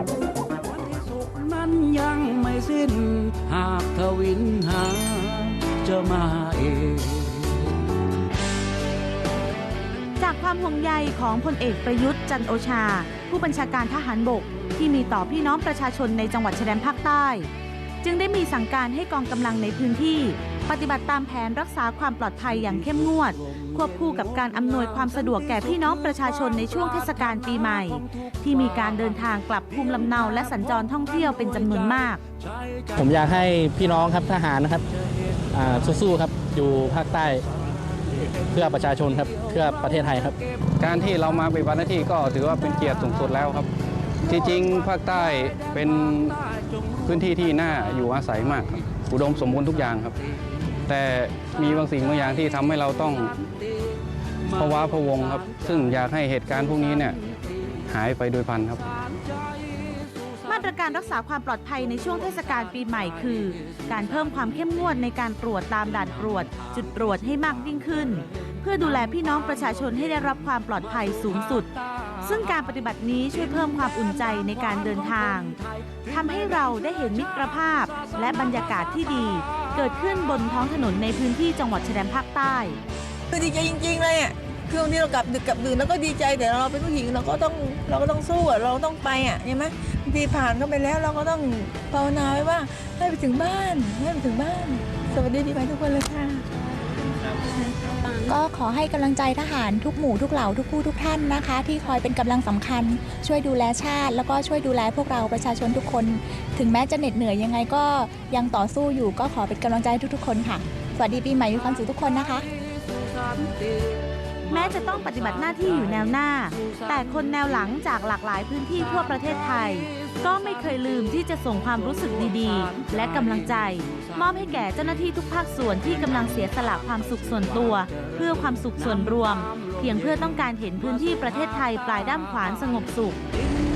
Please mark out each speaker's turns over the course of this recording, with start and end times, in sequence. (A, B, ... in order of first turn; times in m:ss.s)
0:01.2-0:07.2 A
0:10.2-0:17.5 B
0:18.0-0:32.2 B
0:33.0-0:34.8 C
0:35.6-0:37.4 C
0:38.6-0:40.3 C
0:40.8-0:43.7 D
0:44.3-0:46.4 D
0:47.1-0:50.2 D
0:50.9-0:53.3 D
0:54.6-0:57.2 D
0:57.9-0:58.8 D
1:00.4-1:11.7 B
1:12.2-1:22.8 B
1:23.3-1:38.0 E
1:38.2-1:52.5 F
1:54.5-2:13.2 B